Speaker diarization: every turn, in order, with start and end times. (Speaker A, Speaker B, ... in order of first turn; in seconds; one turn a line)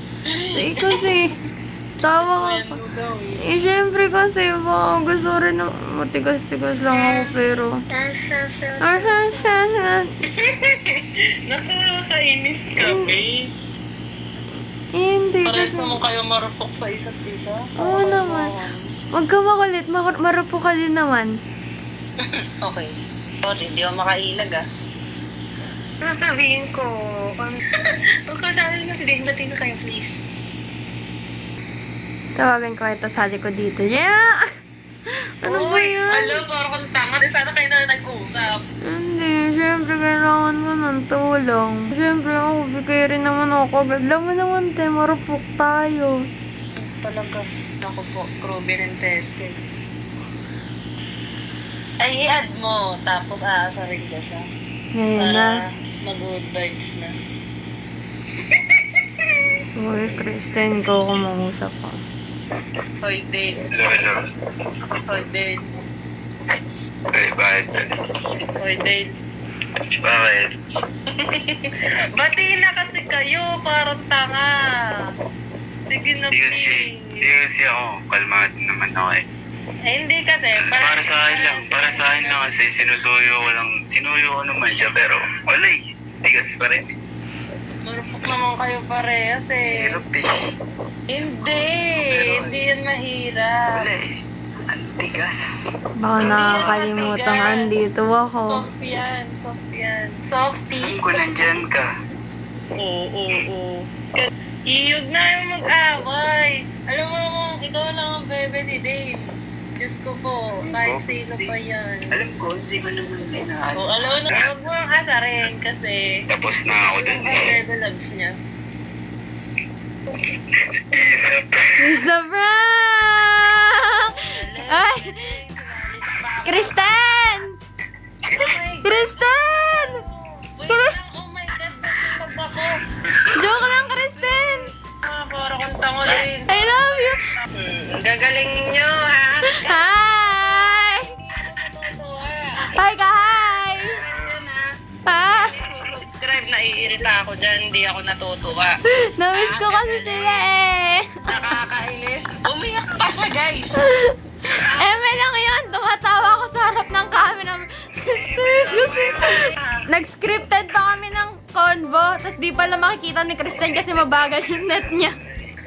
Speaker A: 0.2-1.2
Speaker B: 0.5-1.4
Speaker B: 2.0-2.8
Speaker A: 2.2-3.5
Speaker B: 3.4-7.8
Speaker A: 6.9-7.3
Speaker A: 7.9-9.5
Speaker B: 8.8-10.1
Speaker A: 10.3-13.5
Speaker B: 12.8-13.2
Speaker B: 14.9-16.0
Speaker A: 15.4-18.9
Speaker B: 17.8-18.5
Speaker B: 19.1-21.3
Speaker A: 22.2-24.6
Speaker A: 26.0-30.2
Speaker B: 32.4-34.5
Speaker B: 35.4-36.4
Speaker A: 35.4-38.6
Speaker B: 38.8-46.2
Speaker A: 46.8-49.6
Speaker A: 52.0-54.4
Speaker B: 54.9-55.5
Speaker A: 55.2-57.1
Speaker A: 58.4-59.4
Speaker B: 59.8-62.0
Speaker A: 63.0-63.7
Speaker C: 63.7-64.8
Speaker A: 65.0-65.7
Speaker C: 67.1-67.9
Speaker A: 68.6-69.1
Speaker C: 69.8-70.5
Speaker A: 71.1-75.1
Speaker A: 75.9-77.3
Speaker C: 76.3-79.2
Speaker A: 79.9-82.4
Speaker C: 80.6-87.0
Speaker A: 87.8-90.0
Speaker C: 89.6-90.5
Speaker A: 91.1-93.8
Speaker C: 91.4-92.6
Speaker C: 93.7-96.8
Speaker B: 96.0-98.6
Speaker A: 96.2-97.7
Speaker A: 98.5-101.2
Speaker C: 100.8-101.9
Speaker A: 102.8-112.2
Speaker C: 110.7-111.5
Speaker C: 112.1-114.6
Speaker A: 113.7-118.4
Speaker C: 116.3-117.5
Speaker C: 120.5-122.0
Speaker B: 121.8-125.3
Speaker A: 124.1-126.9
Speaker B: 126.4-127.5
Speaker A: 128.3-132.9
Speaker B: 128.8-129.9
Speaker C: 133.0-133.9
Speaker B: 133.3-134.7
Speaker A: 134.1-142.8
Speaker B: 136.5-137.2
Speaker B: 139.5-141.1
Speaker B: 142.6-144.0
Speaker A: 143.7-144.6
Speaker B: 145.1-145.6
Speaker A: 145.2-148.8
Speaker B: 148.9-151.3
Speaker A: 149.3-150.4
Speaker A: 151.2-153.8
Speaker B: 153.8-165.2
Speaker A: 154.5-155.0
Speaker A: 158.3-159.8
Speaker C: 158.4-159.5